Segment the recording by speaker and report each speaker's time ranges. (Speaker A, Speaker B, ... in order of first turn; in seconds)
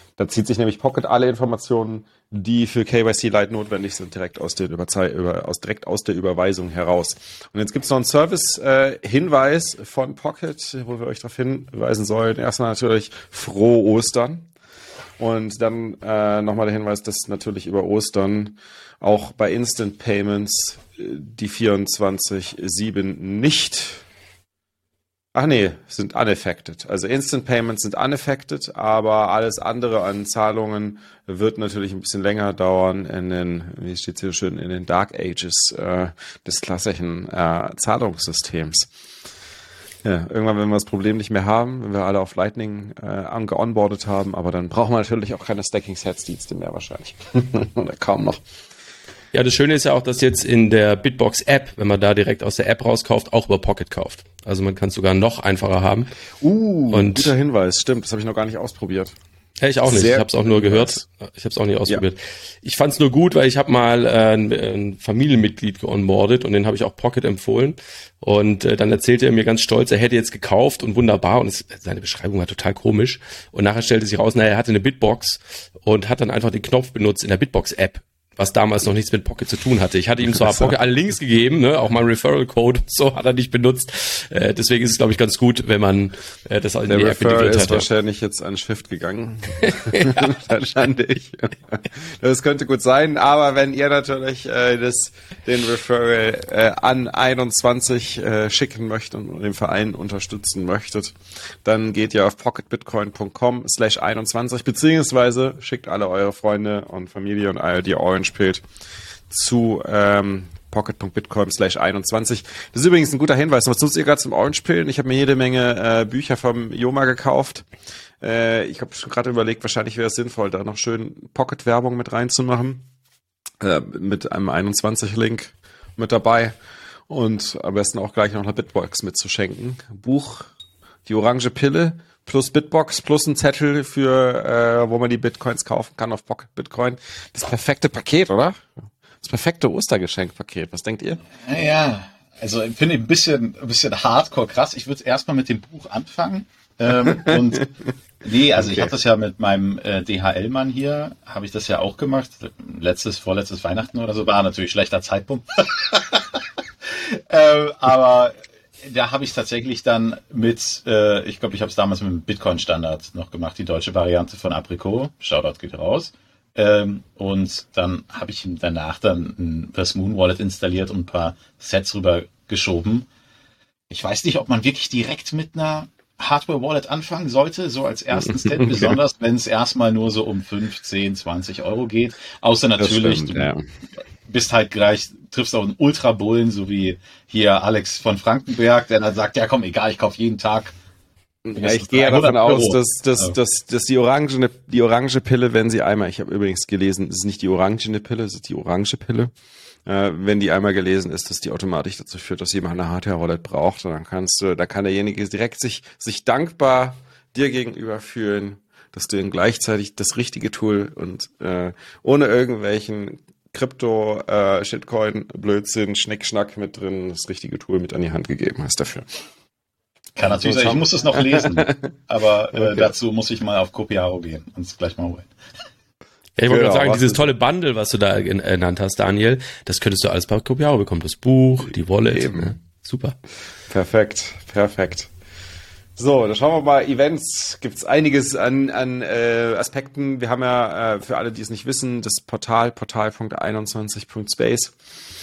Speaker A: 0.2-14.5, 15.2-24.0, 25.3-38.9, 40.0-48.4, 56.4-59.1, 59.8-61.0, 80.4-80.7, 86.9-108.6, 109.3-117.7, 118.2-122.8, 123.6-126.5, 127.1-130.5, 131.1-141.2, 146.9-147.5, 148.6-148.9, 178.1-179.0, 182.8-183.6, 191.4-199.3, 199.8-219.0, 220.2-221.9, 222.5-222.9, 226.5-227.3, 232.1-232.5, 233.7-235.1, 236.0-244.7
Speaker B: 49.3-56.1, 56.9-57.3, 59.6-87.9, 89.8-90.3, 226.4-233.2
Speaker C: 141.4-147.7, 148.2-173.1, 173.9-183.5, 184.3-190.7, 191.6-193.3, 220.2-225.3